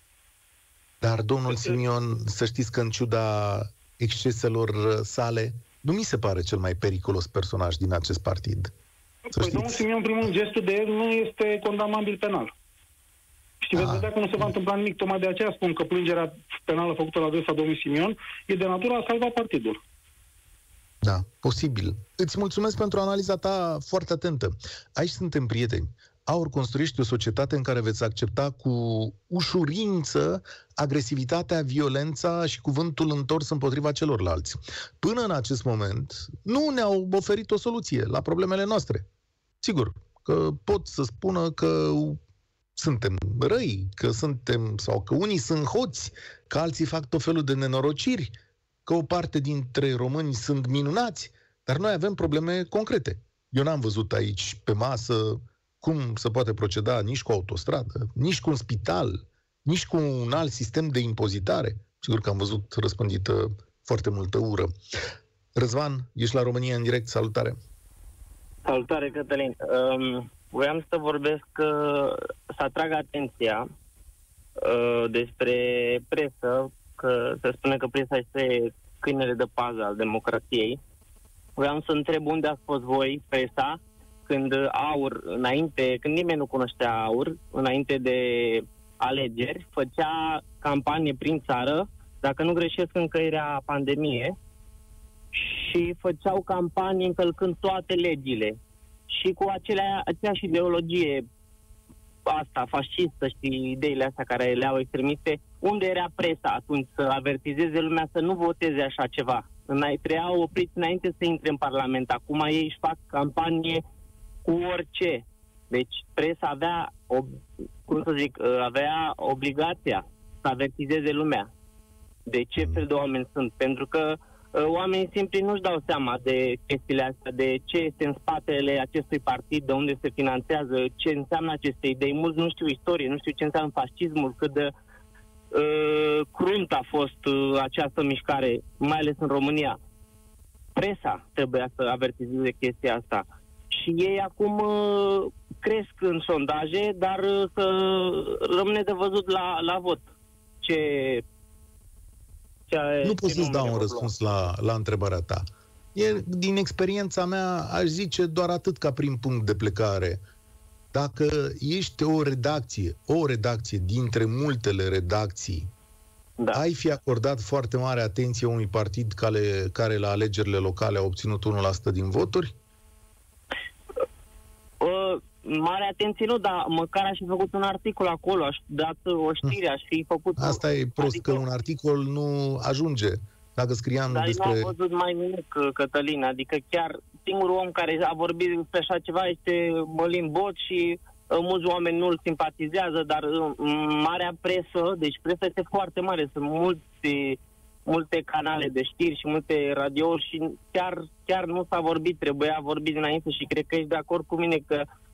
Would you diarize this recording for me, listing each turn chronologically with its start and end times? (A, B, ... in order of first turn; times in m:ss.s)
0:01.0-0:08.7 A
0:09.3-0:12.5 B
0:09.3-0:09.8 A
0:13.6-0:19.8 B
0:13.7-0:14.5 A
0:21.0-0:39.1 A
0:39.6-0:42.2 A
0:42.8-0:48.3 A
0:48.8-1:04.7 A
1:05.6-1:07.6 A
1:08.6-1:13.6 C
1:14.6-1:20.8 C
1:21.6-1:34.4 C
1:35.3-1:38.6 C
1:39.1-1:41.2 C
1:42.2-1:53.8 C
1:54.4-2:01.5 C
2:02.3-2:14.7 C
2:15.5-2:19.8 C
2:20.8-2:30.0 C
2:30.6-2:31.2 C
2:32.7-2:34.1 C
2:33.0-2:40.2 A
2:40.9-2:45.7 A
2:46.5-2:52.5 A
2:54.8-3:01.4 C
3:00.4-3:04.7 A
3:04.1-3:24.9 C